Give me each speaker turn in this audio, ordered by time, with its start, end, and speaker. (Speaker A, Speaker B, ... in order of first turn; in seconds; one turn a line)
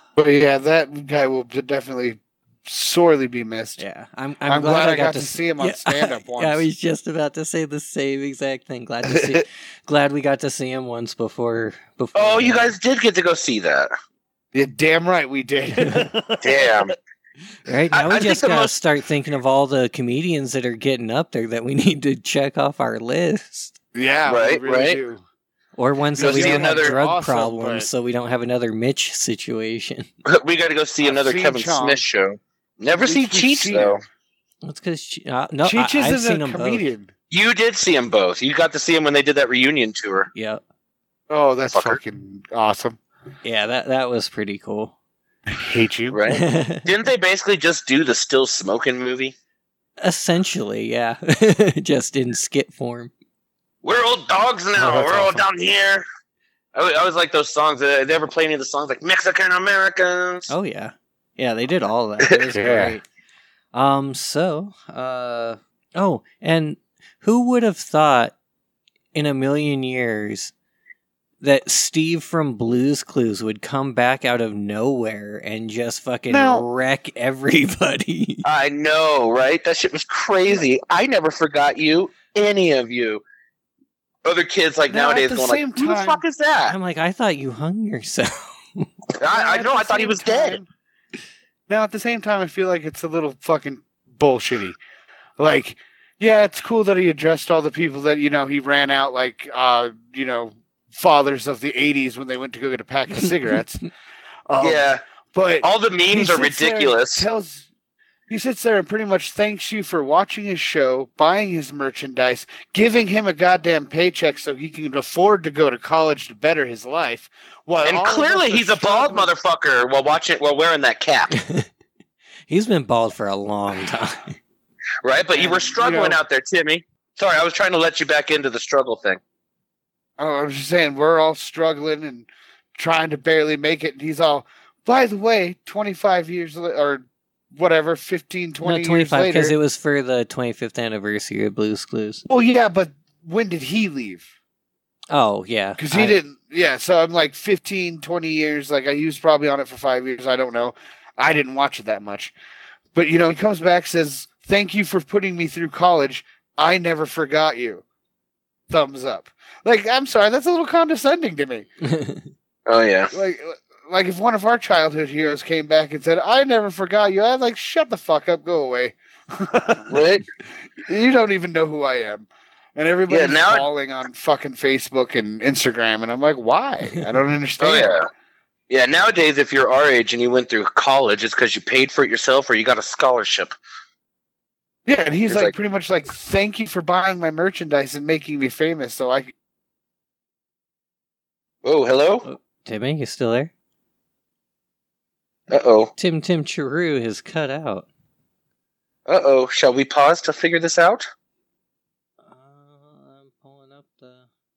Speaker A: 0.2-3.8
Speaker B: 3.8-12.8
Speaker A: 4.5-6.7
Speaker A: 9.1-9.4
Speaker C: 12.2-13.9
Speaker A: 14.5-16.9
Speaker C: 16.4-16.9
Speaker B: 17.7-23.8
Speaker C: 17.9-18.8
Speaker A: 23.9-25.2
Speaker C: 24.3-25.0
Speaker B: 25.8-30.1
Speaker A: 26.1-27.9
Speaker C: 26.2-27.0
Speaker C: 30.2-34.0
Speaker A: 31.0-32.0
Speaker A: 32.9-34.0
Speaker B: 34.6-36.9
Speaker A: 35.6-37.1
Speaker C: 37.3-40.3
Speaker B: 40.4-40.6
Speaker A: 41.3-43.0
Speaker C: 41.7-42.0
Speaker B: 43.4-44.9
Speaker A: 45.5-46.2
Speaker C: 46.1-49.4
Speaker B: 46.3-46.9
Speaker B: 50.0-53.1
Speaker C: 53.8-56.0
Speaker A: 54.8-55.4
Speaker C: 56.8-60.5
Speaker B: 60.5-63.1
Speaker A: 62.5-63.0
Speaker B: 63.7-68.3
Speaker B: 69.2-70.5
Speaker B: 71.4-78.4
Speaker A: 76.3-76.7
Speaker C: 78.4-83.2
Speaker C: 84.2-86.8
Speaker A: 84.9-86.2
Speaker B: 86.7-88.9
Speaker C: 89.2-90.6
Speaker A: 89.2-90.7
Speaker A: 91.7-94.8
Speaker A: 95.4-103.8
Speaker A: 104.5-107.7
Speaker C: 104.6-105.0
Speaker C: 105.6-107.3
Speaker A: 108.3-119.3
Speaker C: 117.8-121.4
Speaker B: 121.3-121.7
Speaker B: 122.5-124.4
Speaker C: 125.0-129.2
Speaker A: 125.3-126.2
Speaker A: 130.2-139.6
Speaker B: 138.6-142.2
Speaker A: 142.3-144.3
Speaker B: 145.1-146.2
Speaker A: 145.8-152.3
Speaker A: 152.9-157.8
Speaker A: 158.7-161.7
Speaker B: 161.8-162.3
Speaker C: 162.7-163.1
Speaker A: 163.1-170.1
Speaker C: 169.9-170.2
Speaker A: 170.8-178.0
Speaker C: 173.1-173.7
Speaker C: 177.6-178.1
Speaker C: 178.7-183.5
Speaker A: 184.9-189.3
Speaker C: 185.3-185.5
Speaker C: 191.6-192.3
Speaker B: 192.2-193.5
Speaker C: 195.5-195.9
Speaker B: 196.0-197.9
Speaker C: 199.1-201.1
Speaker B: 202.2-204.3